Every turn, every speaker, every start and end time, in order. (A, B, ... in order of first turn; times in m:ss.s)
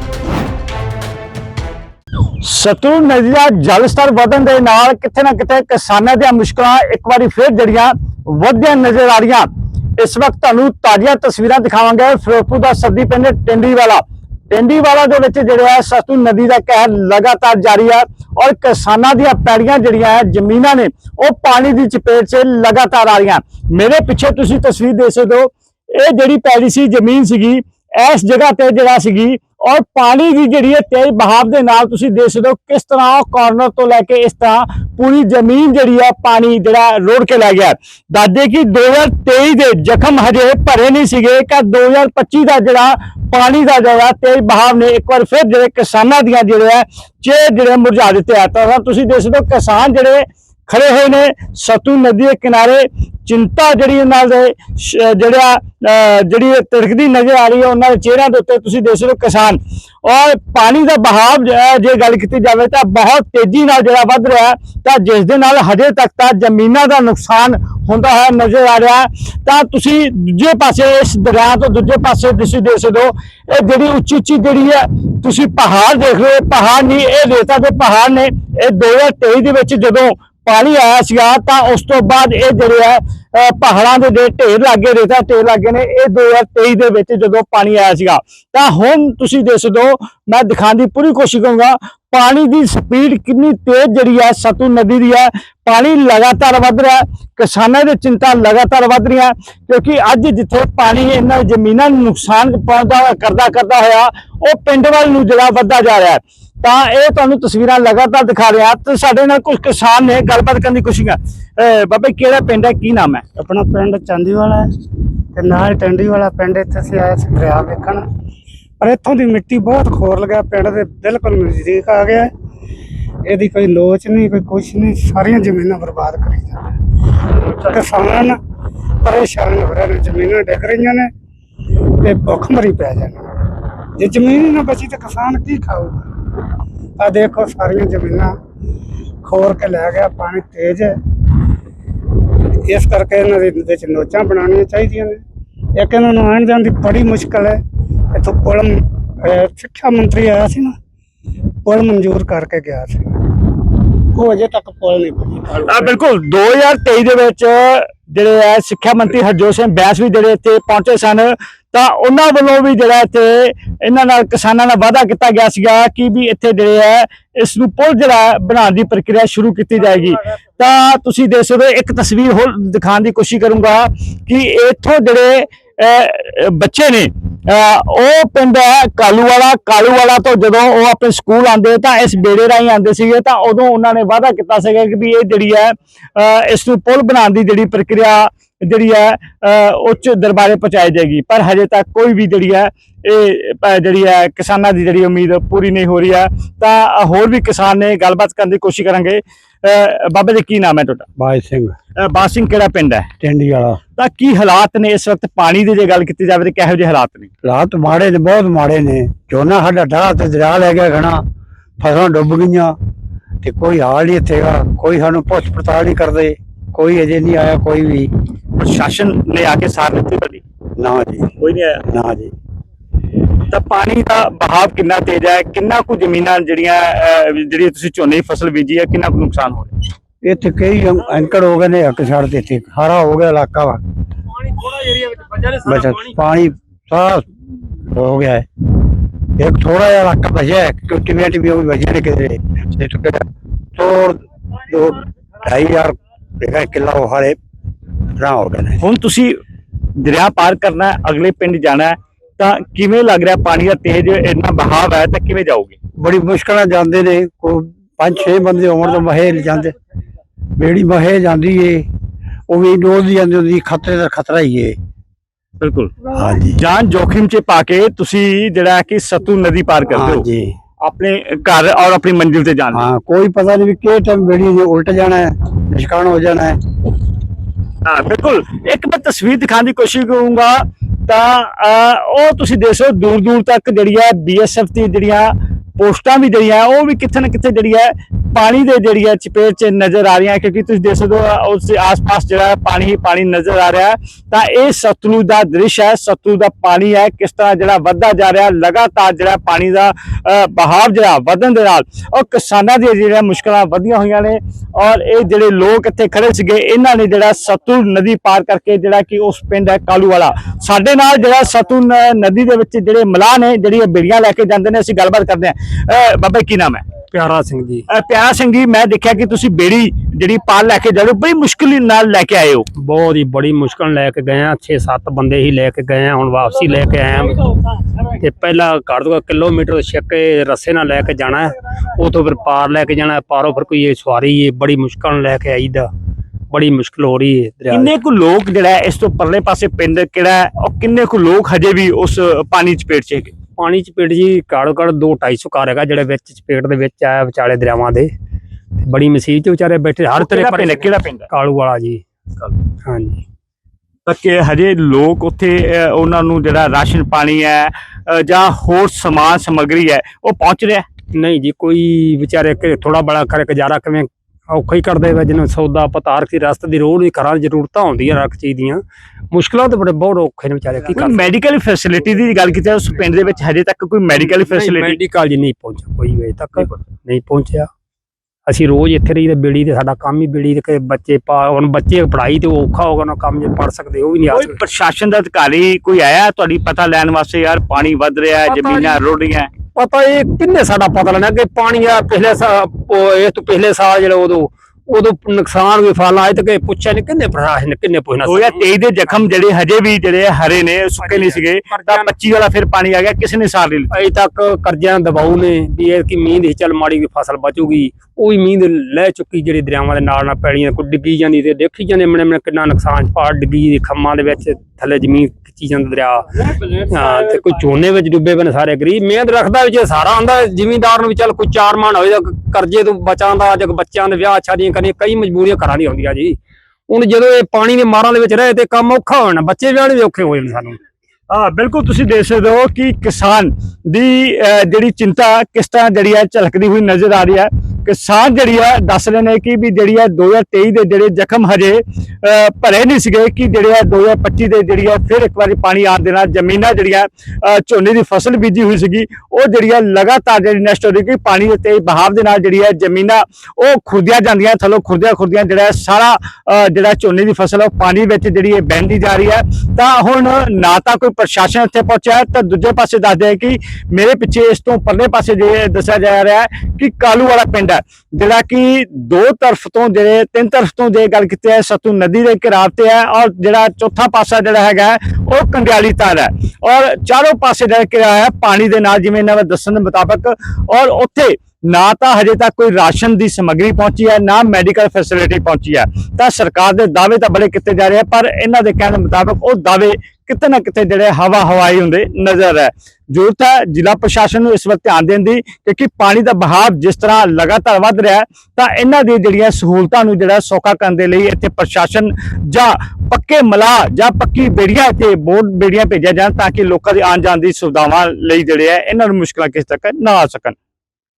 0:02.4-1:53.2 A
1:53.4-1:54.7 B
1:55.3-1:58.0 B
1:58.8-2:02.3 B
2:03.2-2:06.8 B
2:07.6-2:08.4 B
2:09.0-2:11.1 B
2:11.8-2:13.3 B
2:14.0-2:16.1 B
2:17.0-2:18.3 B
2:19.2-2:21.0 B
2:22.6-2:25.2 B
2:25.8-2:27.6 B
2:28.1-2:30.7 B
2:31.6-2:33.0 B
2:34.1-2:35.7 B
2:35.6-3:21.1 A
3:21.2-3:21.7 C
3:22.0-3:23.1 A
3:23.2-3:23.8 C
3:24.0-3:27.3 A
3:27.4-3:31.2 C
3:31.8-3:32.7 C
3:33.4-3:38.1 C
3:38.6-3:40.4 A
3:40.8-3:41.3 C
3:41.4-3:41.8 A
3:41.9-3:42.3 C
3:43.5-3:49.7 A
3:50.2-3:53.8 C
3:54.4-3:56.1 D
3:55.6-3:58.4 C
3:59.4-4:07.4 C
4:08.2-4:08.8 C
4:08.8-4:09.4 A
4:10.0-4:15.8 A
4:16.0-4:19.7 C
4:20.6-4:21.8 C
4:22.5-4:24.8 C
4:25.6-4:26.0 A
4:26.1-4:26.6 C
4:26.5-4:30.3 A
4:29.9-4:30.5 C
4:30.8-4:32.8 A
4:32.7-4:36.6 C
4:37.8-5:16.8 A
5:17.1-5:17.8 D
5:17.9-5:22.7 A
5:22.8-5:35.9 D
5:36.5-5:37.9 D
5:37.7-5:43.3 A
5:43.6-5:48.1 D
5:48.8-5:52.0 D
5:50.2-5:51.3 A
5:52.8-5:53.2 D
5:54.0-6:00.8 A
6:01.1-6:11.3 D
6:10.9-6:15.0 A
6:14.2-6:17.7 D
6:18.5-6:24.6 D
6:24.3-6:29.5 A
6:28.4-6:29.0 D
6:29.7-6:38.6 D
6:38.2-6:43.9 A
6:41.0-6:42.1 D
6:43.9-7:06.4 D
7:06.9-7:10.8 D
7:11.3-8:30.6 A